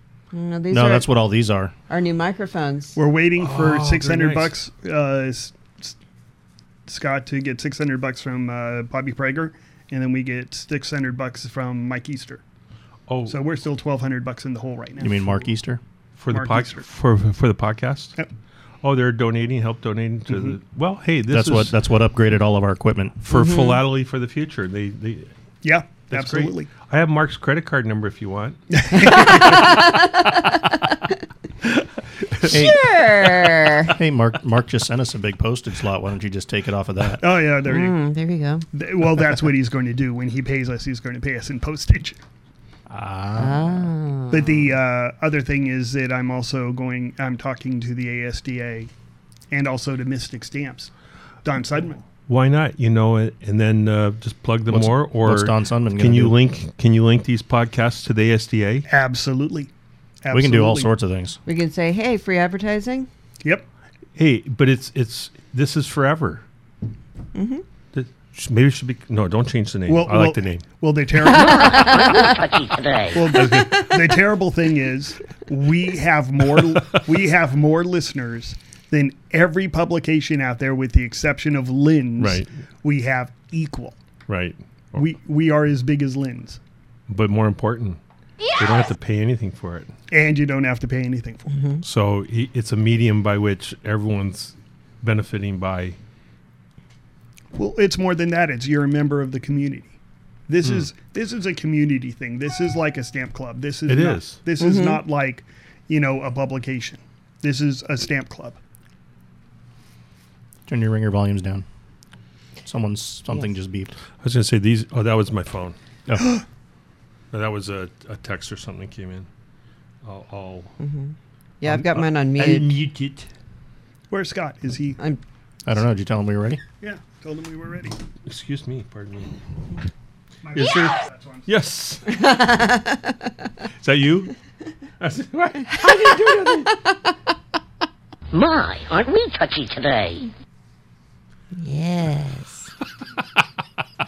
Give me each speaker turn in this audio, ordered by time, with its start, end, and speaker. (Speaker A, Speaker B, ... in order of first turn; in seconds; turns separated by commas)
Speaker A: 0.3-1.1, Speaker B: 0.7-1.7, Speaker A: 1.9-3.0, Speaker C: 2.9-5.9, Speaker D: 3.4-4.5, Speaker C: 6.9-12.4, Speaker D: 13.1-13.4, Speaker C: 13.3-15.4, Speaker B: 15.0-15.8, Speaker D: 16.2-18.2, Speaker C: 16.3-16.8, Speaker D: 18.8-21.7, Speaker C: 20.3-20.6, Speaker B: 21.3-23.3, Speaker D: 23.2-25.3, Speaker A: 23.3-23.8, Speaker C: 25.6-26.7, Speaker D: 26.1-28.6, Speaker C: 28.8-29.7, Speaker A: 29.0-31.1, Speaker B: 32.4-32.9, Speaker A: 32.5-33.9, Speaker B: 33.8-37.2, Speaker C: 37.2-38.0, Speaker A: 37.7-38.6, Speaker C: 38.7-42.2, Speaker B: 42.9-43.9, Speaker A: 43.4-44.6, Speaker C: 44.3-48.9, Speaker C: 49.5-50.9, Speaker C: 51.4-52.0, Speaker D: 52.3-58.9, Speaker B: 54.7-56.4, Speaker C: 58.9-59.7, Speaker C: 60.2-60.9, Speaker B: 60.3-61.4, Speaker A: 61.5-63.1, Speaker D: 64.2-66.4, Speaker A: 67.3-67.6, Speaker D: 67.9-70.7, Speaker C: 69.9-72.0, Speaker A: 71.2-72.3, Speaker E: 71.3-73.4, Speaker C: 73.1-84.0, Speaker D: 73.3-73.9, Speaker D: 76.7-77.0, Speaker D: 82.2-82.5, Speaker D: 84.3-85.0, Speaker C: 85.0-86.6, Speaker D: 87.1-88.0, Speaker D: 88.5-89.9, Speaker C: 90.1-91.5, Speaker A: 91.5-91.8, Speaker D: 91.8-96.0, Speaker C: 97.5-100.0, Speaker C: 100.5-108.6, Speaker D: 103.9-104.4, Speaker A: 104.6-105.0, Speaker B: 110.7-111.6, Speaker B: 112.6-113.9, Speaker D: 114.2-115.7, Speaker B: 116.1-116.4, Speaker D: 117.3-119.3, Speaker D: 120.0-120.7, Speaker A: 120.8-122.8, Speaker D: 121.6-123.3, Speaker C: 124.1-125.0, Speaker B: 125.6-126.6, Speaker C: 126.8-128.0, Speaker D: 128.2-129.3, Speaker C: 130.4-131.5, Speaker D: 130.5-132.0, Speaker A: 132.1-133.3, Speaker D: 133.8-134.3, Speaker D: 135.0-136.8, Speaker A: 135.8-137.1, Speaker E: 138.3-140.3, Speaker A: 141.5-142.7